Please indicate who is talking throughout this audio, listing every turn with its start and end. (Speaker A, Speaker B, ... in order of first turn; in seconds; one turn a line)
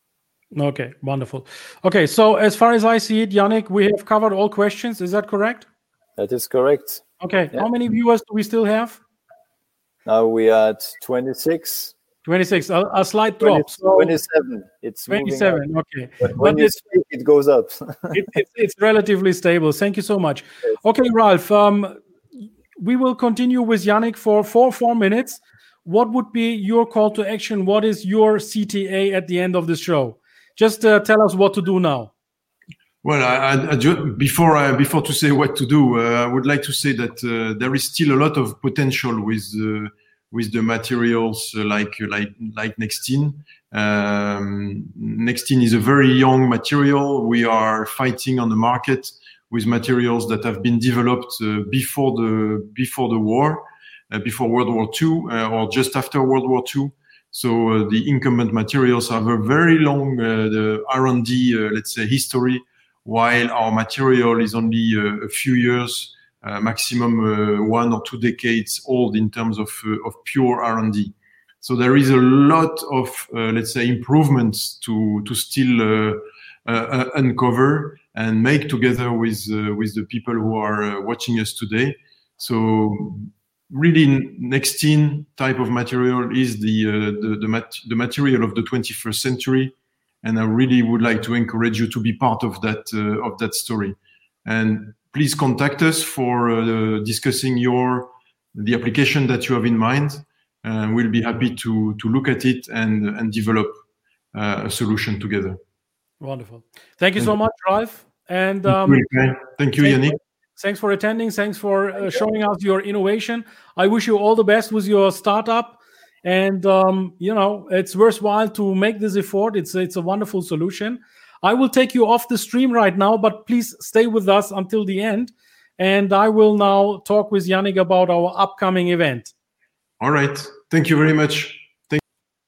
Speaker A: 0.6-5.7
Speaker B: 6.2-7.6
Speaker A: 7.2-9.0
Speaker B: 10.1-11.9
Speaker A: 12.3-14.2
Speaker B: 13.4-15.6
Speaker A: 15.1-16.8
Speaker B: 16.2-18.2
Speaker A: 18.1-22.0
Speaker A: 22.8-32.1
Speaker C: 33.0-103.7
Speaker C: 104.3-105.6
Speaker A: 106.2-109.0
Speaker C: 108.7-110.2
Speaker A: 109.8-129.3
Speaker C: 130.0-132.0